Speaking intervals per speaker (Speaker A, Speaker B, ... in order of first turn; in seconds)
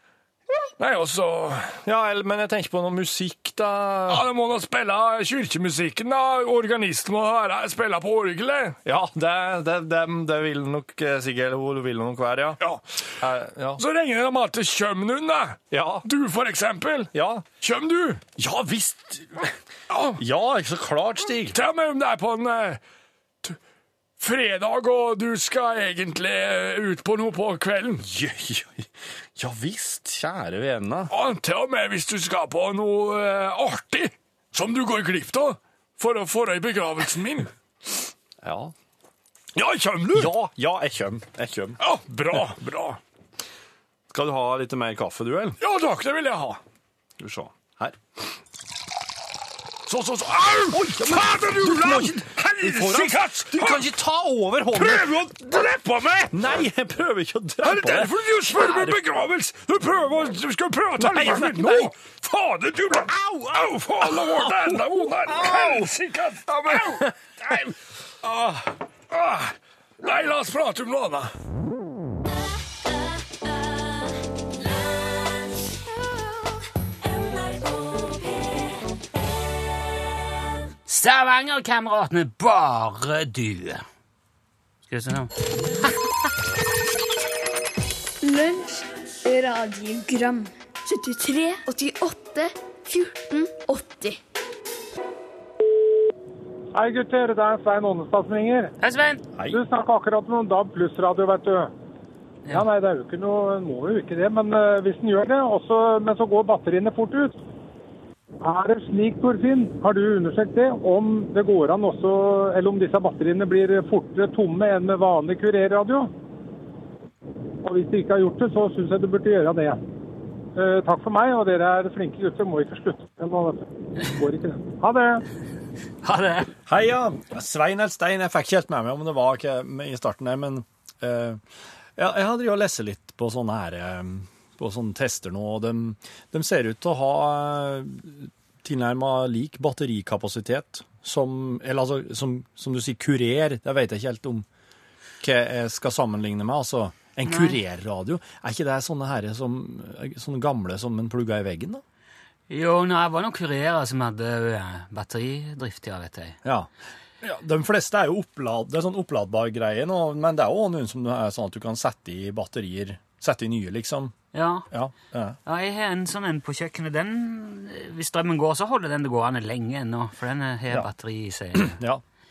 Speaker A: 0.8-1.8, 4.1-8.8, 12.6-13.1, 13.8-18.2, 19.9-20.2, 21.5-22.8, 24.2-28.0, 31.1-37.5, 39.5-40.3, 41.8-43.0, 45.6-46.6, 49.9-53.9, 54.7-56.6, 57.6-67.7, 68.2-71.3
Speaker B: 1.8-4.2, 8.8-12.6, 13.2-13.8, 15.7-16.0, 17.1-17.4, 18.4-19.5, 20.2-21.6, 28.0-31.1, 38.4-38.7, 40.1-41.8, 44.1-45.6, 47.2-48.0, 50.7-55.2, 56.3-59.0, 61.0-61.9, 62.9-65.9, 66.7-67.7, 99.3-99.6, 126.7-131.4, 132.0-144.4, 145.2-151.8, 156.4-156.7, 157.2-164.1, 164.7-165.4, 171.5-172.0
Speaker C: 80.9-83.8, 84.8-86.0, 98.8-99.2, 126.0-126.5, 147.2-147.6, 152.5-156.4, 164.3-164.7, 165.4-171.8
Speaker D: 88.2-94.2
Speaker E: 96.7-98.7, 99.5-101.7, 102.5-107.4, 108.4-116.1, 117.6-119.8, 120.5-125.2